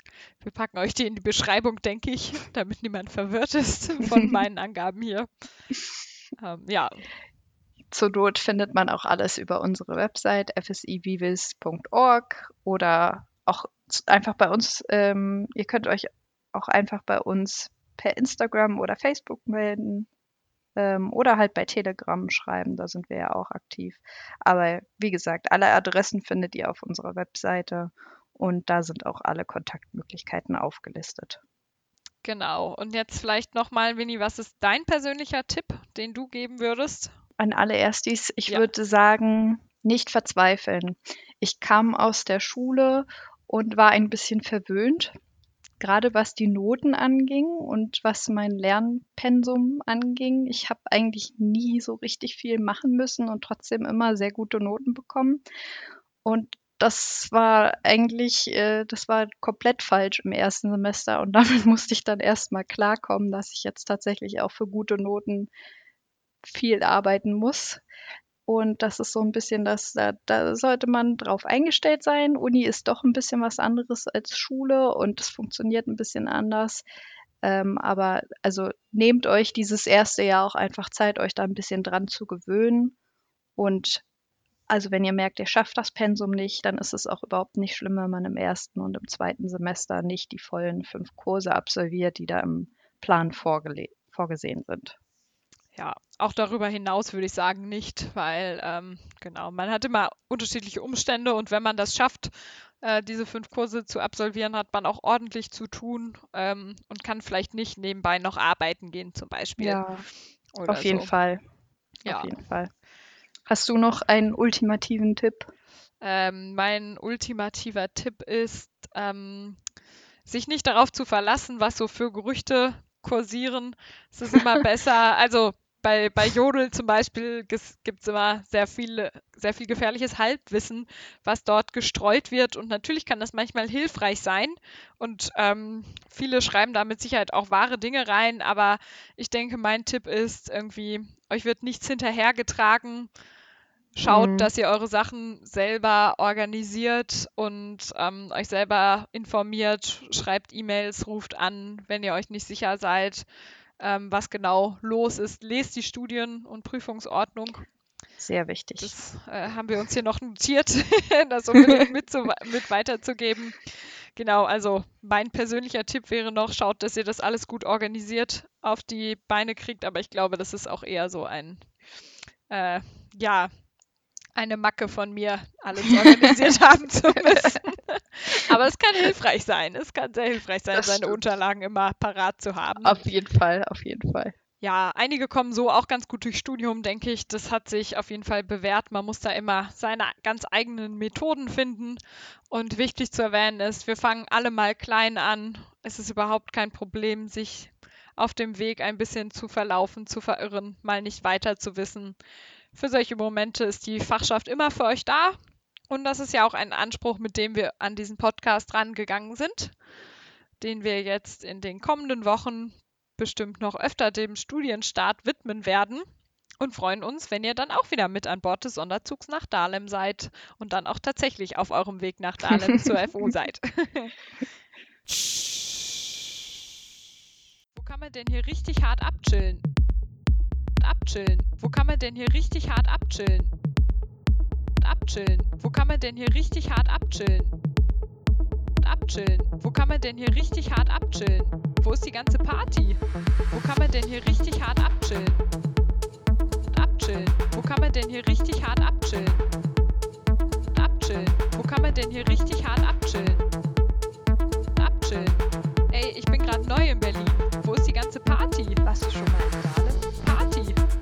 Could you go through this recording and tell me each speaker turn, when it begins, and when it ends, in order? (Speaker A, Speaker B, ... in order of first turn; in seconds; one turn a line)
Speaker A: 0.4-5.3
Speaker A: 6.4-7.0
Speaker B: 7.9-20.1
Speaker B: 20.8-31.4
Speaker A: 32.2-37.1
Speaker B: 37.4-45.1
Speaker B: 45.8-55.4
Speaker B: 56.2-65.5
Speaker B: 66.4-67.8
Speaker B: 68.5-76.8
Speaker B: 77.4-82.9
Speaker B: 83.6-84.0
Speaker B: 84.7-95.0
Speaker A: 95.7-109.8
Speaker B: 109.6-110.0
Speaker A: 110.5-111.1
Speaker B: 110.7-111.4
Speaker A: 112.0-112.3
Speaker B: 112.0-112.7
Speaker B: 113.5-115.5
Speaker A: 116.0-119.6
Speaker A: 120.2-143.1
Speaker A: 143.9-153.2
Speaker B: 144.1-144.5
Speaker A: 153.8-157.7
Speaker B: 158.2-158.9
Speaker A: 158.8-171.7
Speaker A: 172.5-173.5
Speaker A: 174.3-183.0
Speaker B: 180.7-181.2
Speaker B: 182.8-184.3
Speaker A: 184.6-202.2
Speaker A: 202.7-205.4
Speaker A: 205.9-209.7
Speaker A: 210.6-216.1
Speaker A: 216.6-224.1
Speaker A: 227.7-229.6
Speaker A: 230.8-233.5
Speaker A: 234.8-237.5
Speaker A: 238.8-243.0
Speaker A: 243.5-245.4
Speaker A: 246.7-249.4
Speaker A: 250.7-253.5
Speaker A: 254.8-258.8
Speaker B: 258.8-260.1
Speaker A: 260.2-260.8